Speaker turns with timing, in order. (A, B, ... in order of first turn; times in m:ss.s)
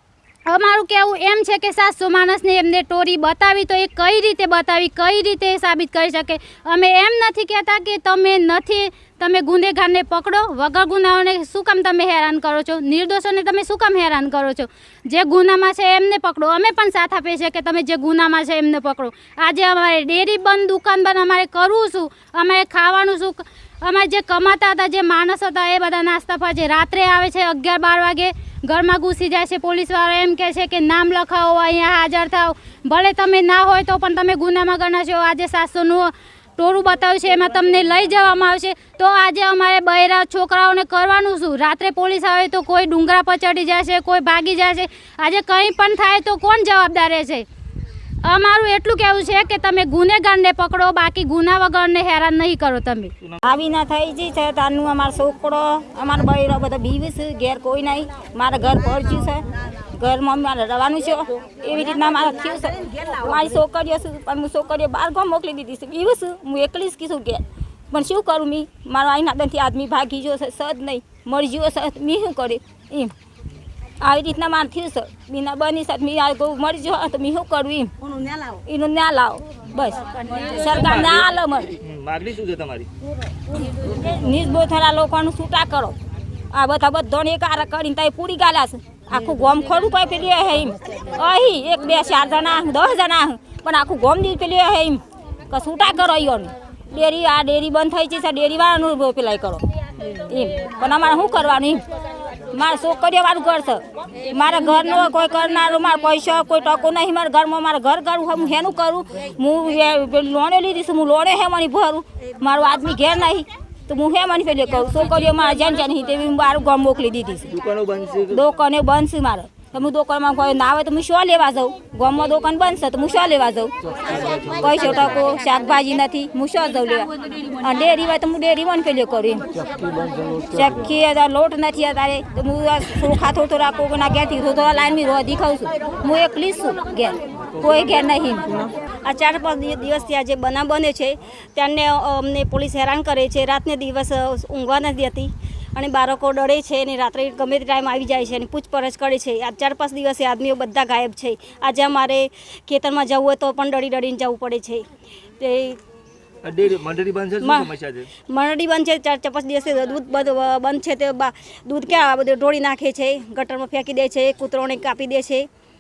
0:00.5-0:47.5 A
0:48.2-0:53.1 A
0:53.5-0:59.4 B
1:00.0-1:13.1 B
1:14.0-1:17.9 B
1:18.7-1:20.0 B
1:20.5-1:21.7 B
1:20.9-1:21.3 C
1:21.8-1:22.9 C
1:24.0-1:26.0 B
1:26.5-1:39.6 B
1:40.3-1:41.8 B
1:42.5-1:43.8 B
1:44.3-1:57.5 B
1:57.6-1:58.4 C
1:58.3-2:03.7 B
2:04.6-2:07.1 B
2:07.6-2:09.4 B
2:10.5-2:18.4 B
2:19.0-2:34.8 D
2:35.4-2:35.8 D
2:36.4-2:38.1 C
2:37.4-2:37.7 D
2:38.3-2:45.5 D